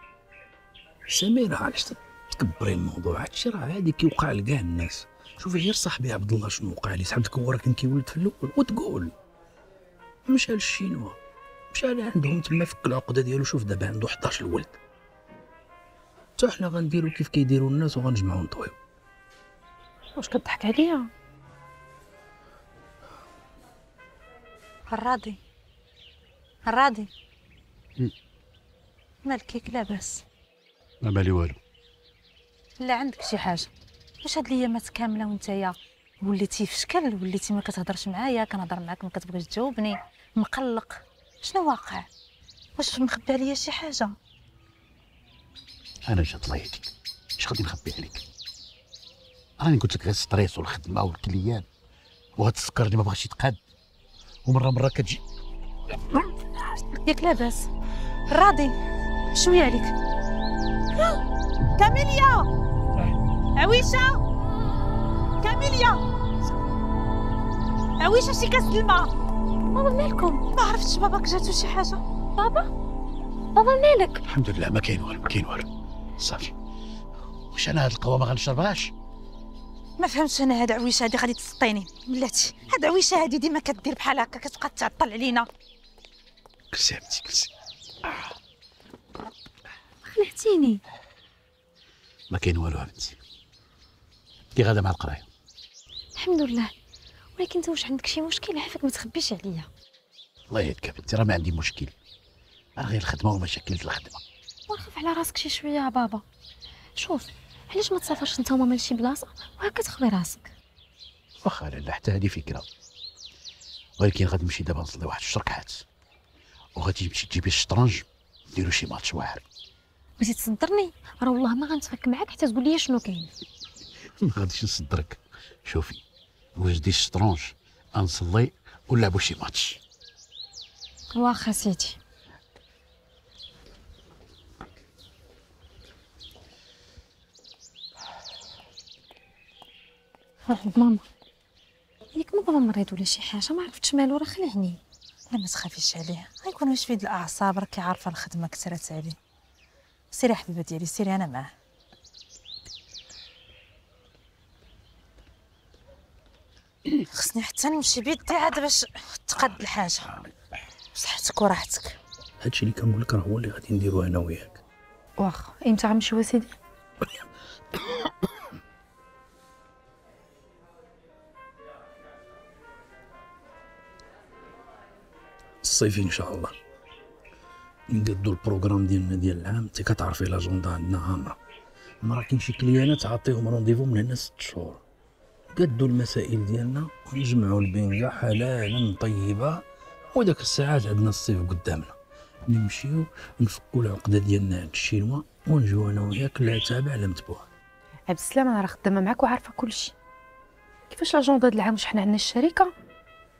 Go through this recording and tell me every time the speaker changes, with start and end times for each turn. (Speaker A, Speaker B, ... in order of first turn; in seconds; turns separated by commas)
Speaker A: 1.1-9.1, Speaker A: 10.3-11.2, Speaker A: 11.7-14.8, Speaker A: 16.4-18.8, Speaker B: 20.2-21.1, Speaker C: 24.9-25.4, Speaker C: 26.7-27.1, Speaker C: 29.2-30.2, Speaker D: 31.0-31.6, Speaker C: 32.8-33.7, Speaker C: 34.2-42.1, Speaker C: 42.8-44.1, Speaker D: 46.1-48.2, Speaker D: 49.6-51.6, Speaker D: 52.4-53.6, Speaker D: 54.5-55.2, Speaker C: 56.8-57.7, Speaker C: 58.3-58.7, Speaker C: 59.3-59.9, Speaker C: 61.8-62.5, Speaker C: 63.5-64.2, Speaker C: 65.4-66.0, Speaker C: 68.0-69.1, Speaker E: 69.7-70.4, Speaker C: 70.5-72.0, Speaker E: 72.4-72.7, Speaker E: 73.5-74.2, Speaker D: 74.3-75.7, Speaker D: 76.2-76.5, Speaker D: 77.5-78.9, Speaker C: 80.0-85.5, Speaker D: 86.7-87.5, Speaker E: 90.0-90.8, Speaker D: 92.3-93.2, Speaker D: 94.5-95.2, Speaker E: 96.2-96.7, Speaker E: 97.4-99.7, Speaker D: 100.5-101.9, Speaker D: 102.8-104.2, Speaker E: 104.7-106.2, Speaker E: 107.0-110.5, Speaker D: 111.4-112.7, Speaker D: 114.0-115.8, Speaker D: 116.8-119.4, Speaker E: 120.2-123.3, Speaker D: 124.2-126.0, Speaker D: 126.5-129.8, Speaker E: 131.1-132.0, Speaker E: 140.5-141.0, Speaker E: 142.1-144.8, Speaker C: 145.3-149.2, Speaker C: 150.1-151.5, Speaker C: 157.1-160.1, Speaker C: 160.9-162.0, Speaker A: 162.4-164.6, Speaker B: 165.2-166.5, Speaker A: 175.6-176.6, Speaker A: 177.9-181.3, Speaker A: 182.0-184.8, Speaker A: 185.5-189.6, Speaker A: 190.1-191.9, Speaker A: 192.5-197.5, Speaker B: 198.1-199.9, Speaker B: 200.9-202.7